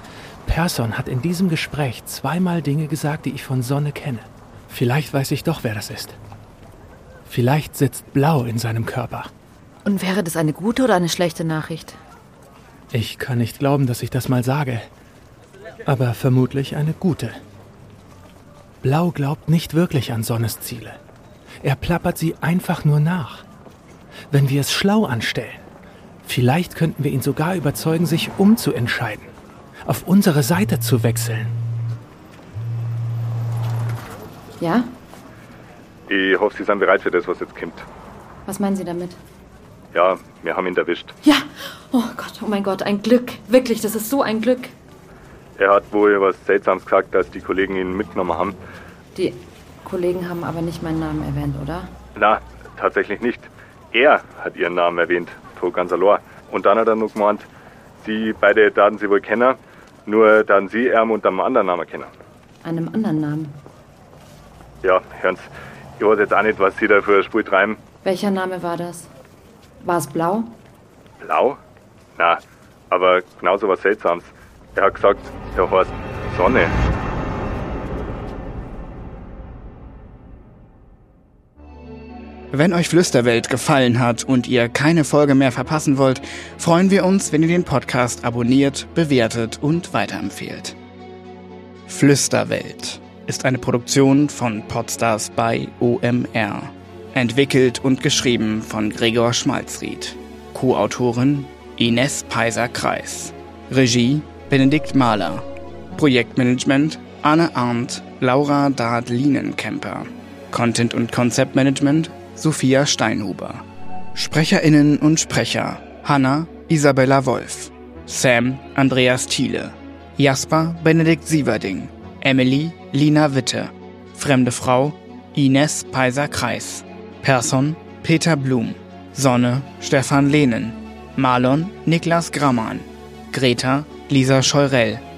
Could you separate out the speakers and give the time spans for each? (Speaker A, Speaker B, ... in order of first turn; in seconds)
Speaker A: 0.5-6.2, 7.3-9.3, 12.9-14.9, 15.8-17.4, 18.8-21.0, 21.6-23.4, 24.3-25.6, 26.2-29.3, 29.9-31.5
Speaker B: 9.8-12.0, 34.6-34.9, 38.5-39.2, 41.2-44.7, 49.1-51.9, 62.6-63.6, 68.0-69.1, 69.8-70.5
Speaker C: 36.1-37.9, 39.9-41.1, 45.6-48.6, 52.1-57.5, 58.0-62.1, 64.8-67.8, 71.2-71.6, 72.2-76.8
Speaker D: 82.5-90.8, 91.9-105.4, 106.0-113.6, 114.1-135.0